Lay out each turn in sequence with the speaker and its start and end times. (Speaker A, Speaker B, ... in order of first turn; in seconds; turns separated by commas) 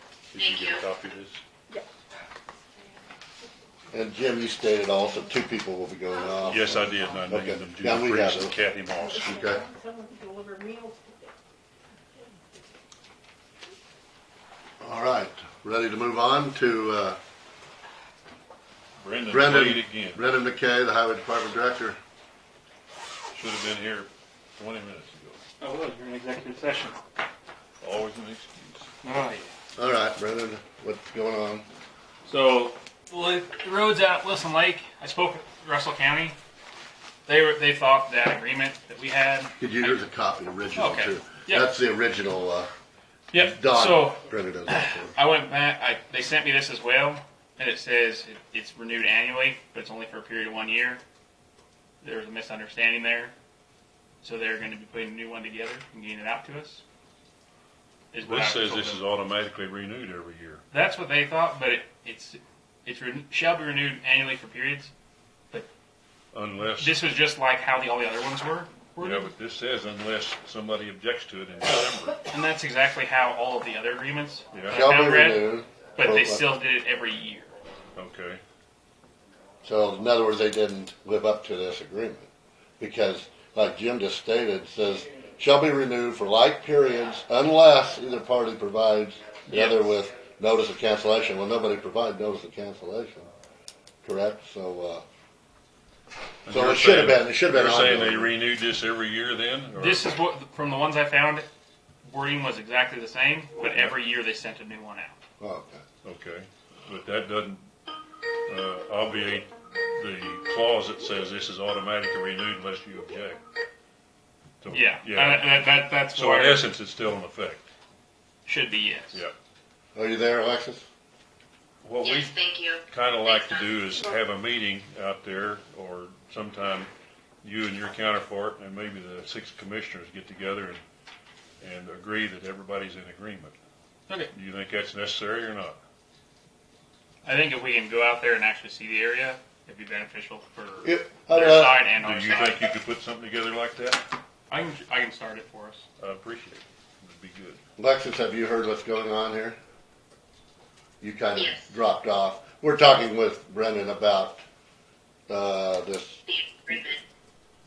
Speaker A: 0.3-1.4, Speaker B: 0.4-0.8, Speaker C: 3.9-8.5, Speaker D: 6.2-7.0, Speaker A: 6.5-9.4, Speaker D: 8.9-11.3, Speaker C: 9.2-9.6, Speaker C: 14.8-17.2, Speaker A: 19.0-20.2, Speaker C: 19.3-22.0, Speaker A: 23.3-25.4, Speaker E: 25.6-27.0, Speaker A: 27.8-28.9, Speaker E: 29.0-29.5, Speaker C: 29.8-31.6, Speaker E: 32.2-36.4, Speaker E: 37.2-39.9, Speaker C: 39.6-42.7, Speaker E: 40.7-41.7, Speaker E: 43.3-51.0, Speaker C: 43.3-45.1, Speaker E: 52.0-53.3, Speaker E: 54.2-56.8, Speaker E: 58.1-59.0, Speaker A: 58.2-60.6, Speaker E: 60.7-64.9, Speaker A: 66.3-67.0, Speaker E: 66.8-69.3, Speaker A: 69.0-72.2, Speaker E: 72.3-77.5, Speaker A: 74.5-74.8, Speaker C: 74.7-76.4, Speaker A: 78.0-78.4, Speaker C: 79.6-82.3, Speaker C: 82.8-93.3, Speaker A: 89.5-89.8, Speaker C: 94.0-95.0, Speaker A: 96.5-100.1, Speaker C: 96.5-98.3, Speaker E: 99.8-101.5, Speaker E: 102.0-105.2, Speaker C: 105.4-105.8, Speaker A: 106.0-107.6, Speaker A: 108.5-113.4, Speaker A: 114.6-115.5, Speaker E: 114.7-116.7, Speaker A: 116.1-117.7, Speaker E: 118.5-119.2, Speaker C: 119.9-120.9, Speaker A: 121.8-122.4, Speaker B: 122.0-123.8, Speaker A: 122.9-126.9, Speaker A: 127.4-130.8, Speaker A: 131.6-133.5, Speaker A: 134.3-135.8, Speaker E: 137.2-142.6, Speaker C: 140.8-141.8, Speaker A: 141.9-144.1, Speaker E: 144.5-145.8, Speaker A: 146.0-147.6, Speaker C: 147.8-149.6, Speaker C: 151.0-154.4, Speaker B: 151.3-151.7, Speaker C: 155.3-156.2, Speaker B: 156.3-157.0